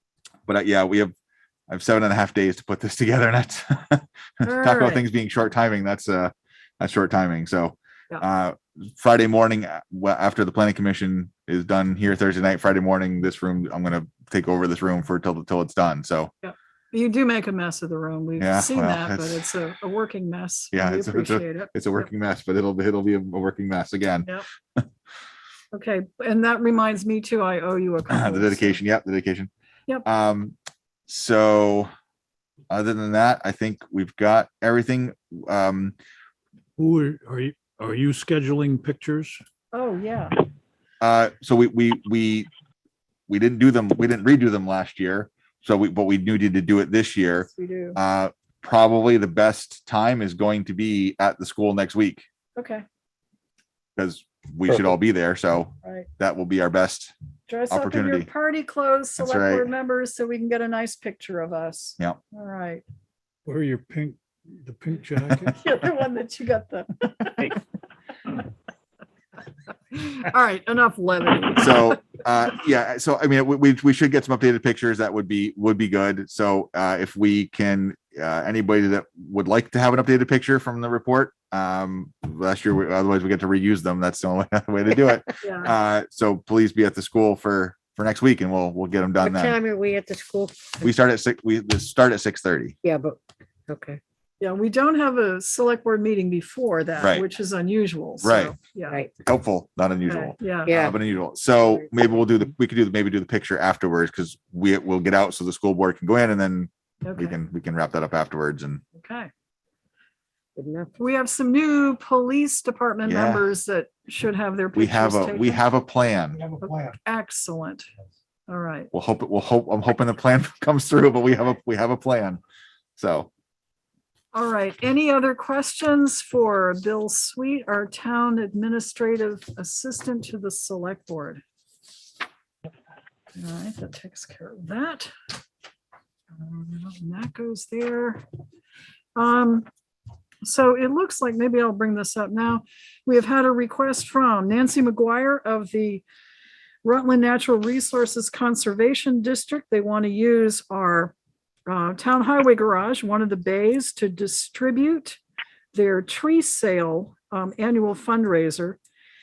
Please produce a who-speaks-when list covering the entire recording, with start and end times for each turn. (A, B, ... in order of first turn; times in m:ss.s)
0:00.5-0:01.1 A
0:01.7-0:16.3 A
0:04.4-0:05.0 B
0:16.4-0:22.0 B
0:18.4-0:19.4 A
0:20.7-0:24.8 A
0:25.7-0:28.8 B
0:28.1-0:29.5 A
0:30.0-0:30.5 A
0:31.1-0:31.9 A
0:32.7-0:35.9 A
0:36.8-0:39.4 C
0:39.7-0:40.4 B
0:41.0-0:42.5 A
0:43.3-0:52.2 A
0:47.4-0:48.0 B
0:52.6-0:52.8 B
0:54.0-0:57.1 A
0:55.8-0:56.1 B
0:57.5-1:02.8 B
0:57.7-0:58.3 A
0:59.2-0:59.7 A
1:03.4-1:05.6 C
1:05.6-1:07.5 B
1:09.9-1:11.9 B
1:11.6-1:29.6 A
1:25.4-1:25.7 B
1:29.2-1:30.8 D
1:30.8-1:32.7 A
1:32.8-1:34.0 D
1:34.4-1:39.0 B
1:37.0-1:37.2 A
1:38.2-1:38.5 A
1:38.9-1:39.1 D
1:39.2-1:48.8 A
1:40.1-1:40.8 B
1:40.6-1:41.0 D
1:47.0-1:47.4 B
1:48.9-1:49.3 B
1:50.6-1:50.9 D
1:51.0-1:55.6 B
1:53.0-1:53.4 A
1:54.7-1:56.4 A
1:56.6-1:57.8 B
1:58.5-1:58.9 B
1:58.9-2:02.4 A
2:03.0-2:03.3 A
2:04.3-2:11.4 B
2:13.4-2:15.1 B
2:16.3-2:18.2 B
2:19.2-2:19.7 B
2:20.4-2:26.0 B
2:26.8-2:31.1 B
2:31.7-2:35.2 B
2:35.7-2:38.8 B